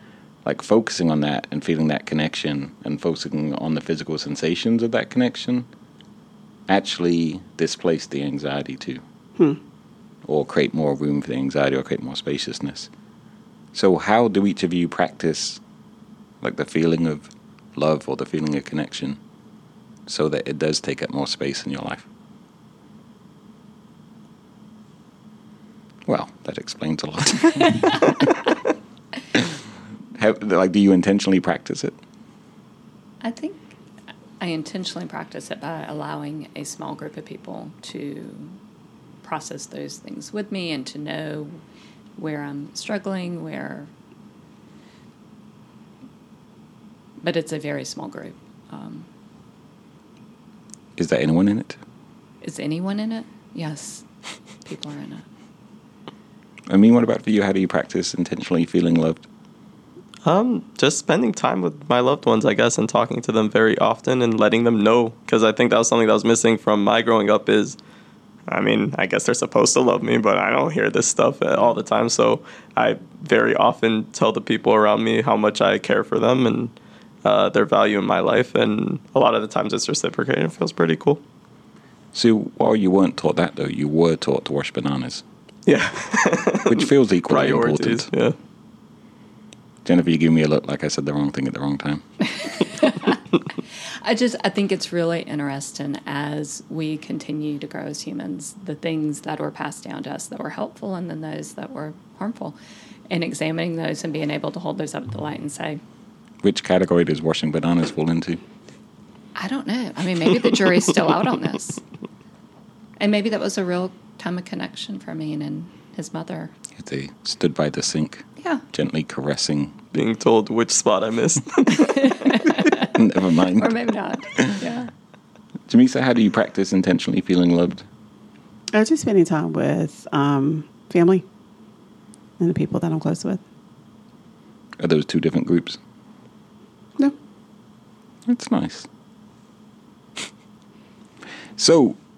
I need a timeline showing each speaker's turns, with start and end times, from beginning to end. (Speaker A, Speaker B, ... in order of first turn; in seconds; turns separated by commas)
Speaker A: 0.4-5.7, Speaker A: 6.7-9.0, Speaker A: 10.2-12.9, Speaker A: 13.7-15.6, Speaker A: 16.4-19.2, Speaker A: 20.1-22.1, Speaker A: 26.0-28.4, Speaker A: 30.1-32.0, Speaker B: 33.2-33.6, Speaker B: 34.4-38.6, Speaker B: 39.2-41.6, Speaker B: 42.2-43.9, Speaker B: 47.2-49.1, Speaker A: 51.0-51.8, Speaker B: 52.4-54.0, Speaker B: 54.6-55.2, Speaker A: 56.7-59.3, Speaker C: 60.2-67.8, Speaker C: 68.5-81.2, Speaker A: 82.1-85.2, Speaker C: 85.7-88.3, Speaker A: 86.6-88.1, Speaker A: 89.8-92.0, Speaker B: 92.4-93.2, Speaker B: 94.0-102.5, Speaker B: 103.1-105.8, Speaker A: 106.4-108.4, Speaker B: 109.4-111.8, Speaker B: 113.0-116.5, Speaker A: 116.7-119.7, Speaker B: 118.4-118.6, Speaker C: 119.9-121.9, Speaker B: 121.7-122.9, Speaker A: 122.8-123.8, Speaker B: 123.5-124.9, Speaker A: 124.3-124.6, Speaker A: 125.7-127.8, Speaker D: 128.7-131.2, Speaker D: 132.4-133.4, Speaker A: 134.8-135.8, Speaker A: 138.2-138.9, Speaker A: 141.6-142.0